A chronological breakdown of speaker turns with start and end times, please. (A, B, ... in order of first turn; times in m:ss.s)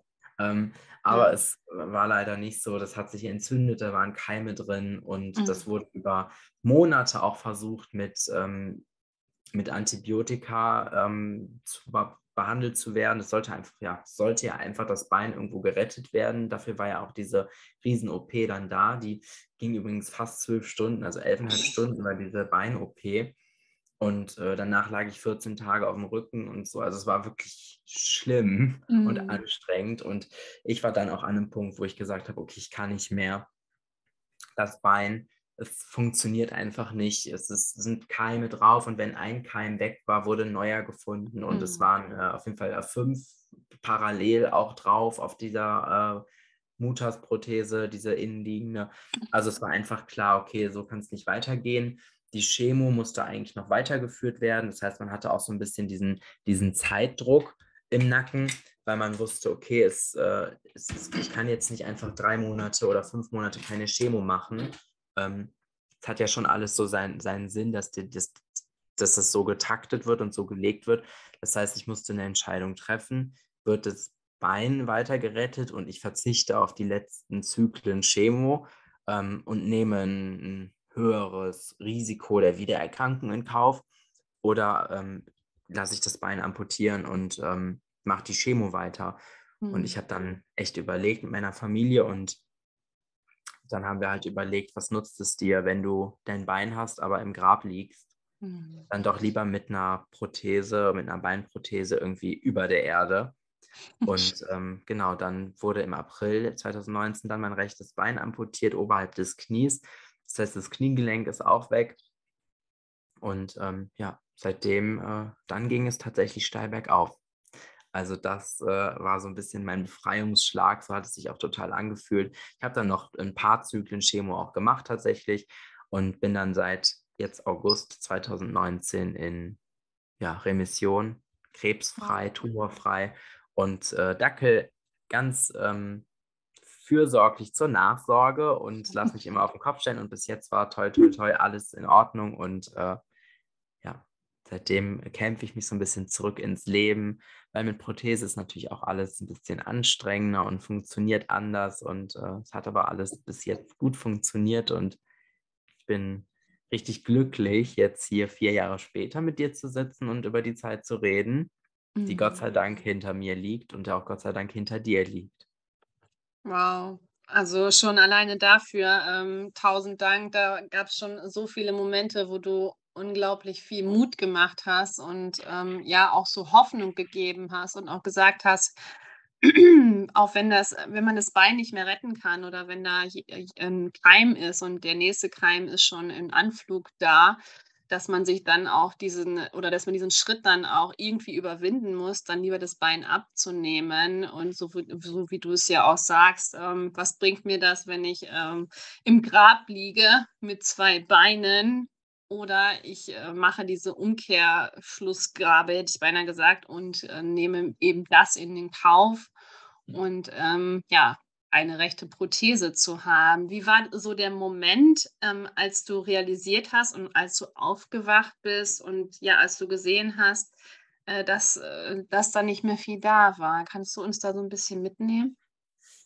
0:00.4-0:08.8 A
0:01.1-0:01.4 B
0:05.4-0:05.6 B
0:09.5-0:23.3 A
0:24.0-0:33.5 A
0:28.9-0:29.4 B
0:34.6-0:46.2 A
0:41.5-0:41.9 B
0:46.8-1:23.8 A
1:24.4-1:29.2 A
1:29.6-1:30.0 B
1:29.7-1:32.4 A
1:33.7-1:38.1 A
1:38.4-1:38.9 B
1:38.9-1:43.4 A
1:44.0-1:44.3 B
1:44.0-1:52.0 A
1:53.2-1:57.2 A
1:57.9-2:09.6 A
2:10.2-2:16.0 A
2:16.7-2:23.0 A
2:23.8-2:35.0 A
2:35.8-2:41.5 A
2:42.0-2:42.4 B
2:42.0-2:45.4 A
2:46.4-2:58.8 B
2:59.4-3:29.3 B
3:29.9-3:45.3 B